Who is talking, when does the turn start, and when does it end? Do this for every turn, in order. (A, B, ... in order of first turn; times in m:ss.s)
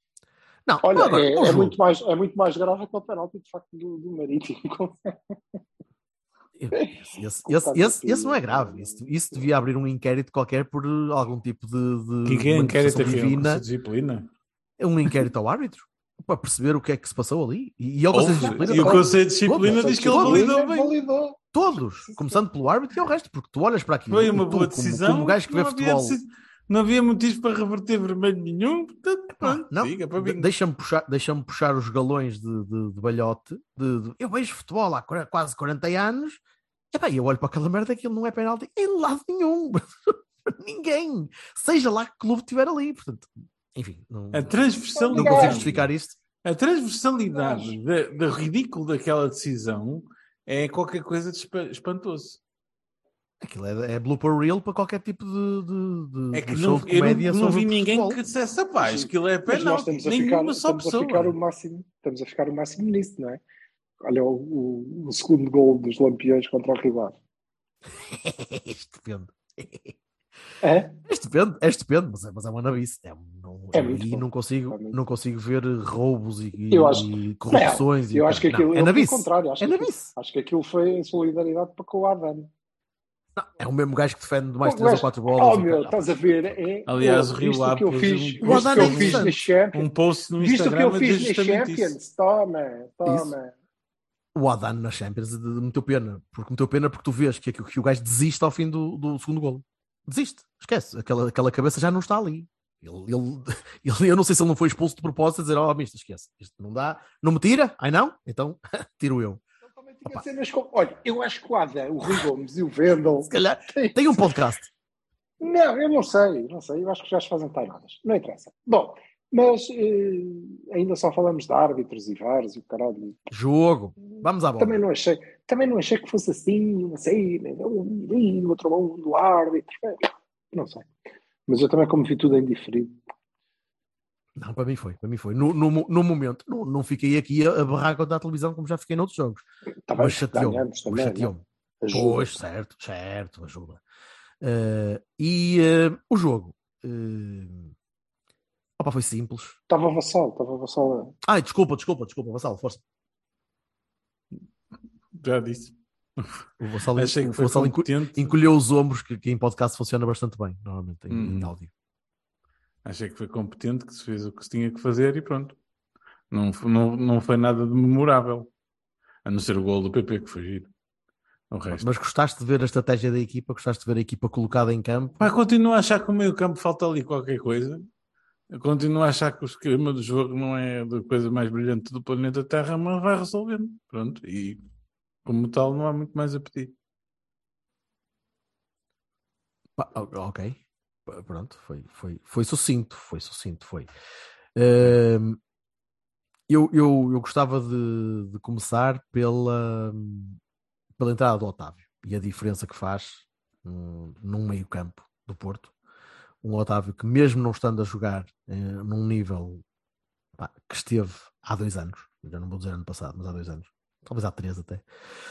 0:00.6-0:01.8 A
0:00.8-0:05.1 B
0:06.6-0:13.6 A
0:06.7-0:09.5 B
0:12.2-0:14.3 C
0:14.8-0:20.9 A
0:18.1-0:20.9 C
0:18.4-0:22.4 B
0:21.5-0:26.2 A
0:24.1-0:30.5 C
0:29.3-0:36.4 A
0:36.9-0:46.2 A
0:44.3-0:45.8 C
0:44.9-0:45.7 B
0:46.4-0:52.4 C
0:47.3-0:47.8 B
0:53.4-0:58.2 A
0:56.3-1:01.4 C
0:58.8-1:03.4 B
1:04.0-1:07.2 B
1:07.9-1:09.9 A
1:10.6-1:11.0 B
1:11.0-1:20.1 A
1:13.7-1:15.0 B
1:16.7-1:22.5 B
1:23.4-1:26.2 A
1:24.6-1:29.9 B
1:26.9-1:32.0 C
1:28.4-1:29.4 A
1:30.4-1:33.5 B
1:33.0-1:33.3 A
1:34.3-1:49.4 A
1:49.6-1:54.3 B
1:53.2-1:54.7 A
1:55.4-2:03.2 B
2:03.3-2:04.8 A
2:04.6-2:10.9 B
2:11.5-2:13.0 B
2:14.4-2:19.4 A
2:19.9-2:21.3 B
2:19.9-2:23.8 A
2:21.8-2:22.3 B
2:24.4-2:27.7 A
2:28.8-2:29.6 A
2:29.7-2:31.1 B
2:31.2-2:32.8 A
2:35.1-2:36.3 C
2:36.6-2:41.7 A
2:37.0-2:38.3 C
2:41.1-2:41.5 C
2:42.8-2:45.6 C
2:46.3-2:48.5 C
2:49.2-2:50.7 C
2:51.5-2:51.8 C
2:51.7-2:55.3 A
2:55.2-2:57.9 C
2:58.5-3:04.6 C
3:05.2-3:06.7 C
3:09.8-3:13.9 A
3:14.6-3:15.4 A
3:16.5-3:20.4 A
3:21.0-3:25.7 A
3:26.4-3:29.6 A
3:30.4-3:34.8 A